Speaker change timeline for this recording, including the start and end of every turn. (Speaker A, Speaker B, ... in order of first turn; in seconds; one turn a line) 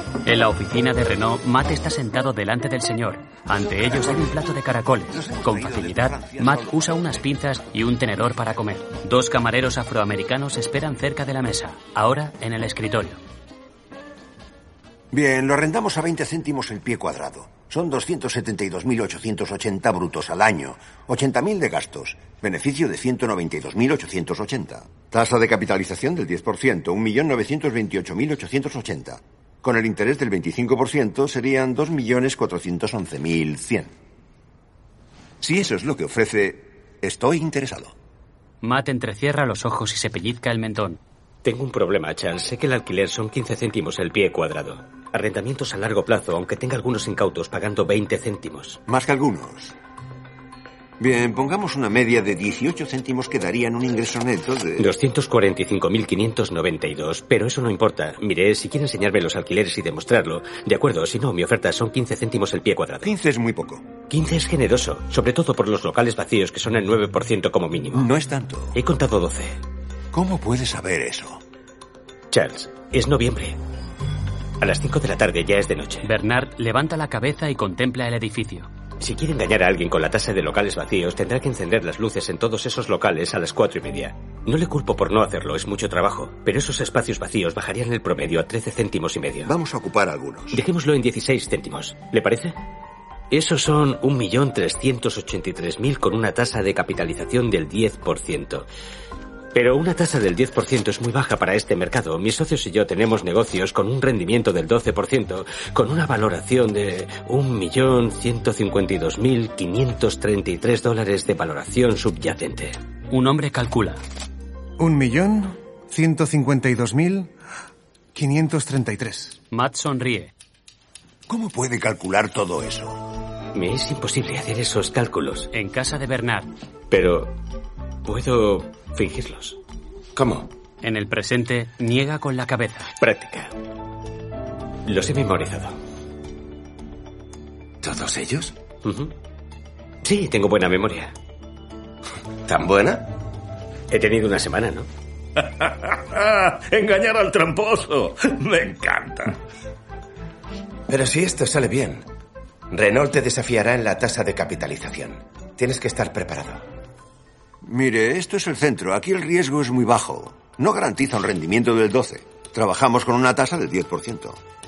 Speaker A: 0.3-13.2
Speaker B: 5.1-7.2
Speaker B: 15.1-33.9
Speaker B: 35.4-37.9
Speaker A: 38.6-41.0
Speaker C: 41.4-48.8
Speaker B: 48.9-49.7
Speaker B: 51.0-54.9
Speaker C: 54.8-63.1
Speaker B: 63.0-63.9
Speaker C: 64.1-68.1
Speaker B: 67.9-68.8
Speaker C: 68.7-69.6
Speaker B: 70.1-71.4
Speaker C: 72.3-73.6
Speaker C: 74.6-76.1
Speaker A: 76.0-78.7
Speaker C: 79.0-89.5
Speaker B: 89.4-90.6
Speaker C: 90.5-92.5
Speaker C: 93.3-98.7
Speaker C: 99.5-112.8
Speaker A: 113.1-114.0
Speaker D: 114.8-117.3
Speaker D: 118.1-119.4
Speaker A: 119.5-120.3
Speaker B: 121.3-123.0
Speaker C: 123.5-125.5
Speaker A: 125.5-126.5
Speaker C: 126.9-127.4
Speaker C: 128.1-129.6
Speaker E: 130.1-130.5
Speaker A: 130.8-132.9
Speaker C: 133.0-133.5
Speaker C: 134.9-135.8
Speaker E: 137.8-138.5
Speaker C: 138.8-139.1
Speaker C: 140.0-141.1
Speaker E: 142.4-143.1
Speaker C: 143.9-144.9
Speaker F: 145.4-149.3
Speaker E: 150.9-152.1
Speaker E: 152.7-156.6
Speaker B: 157.6-164.4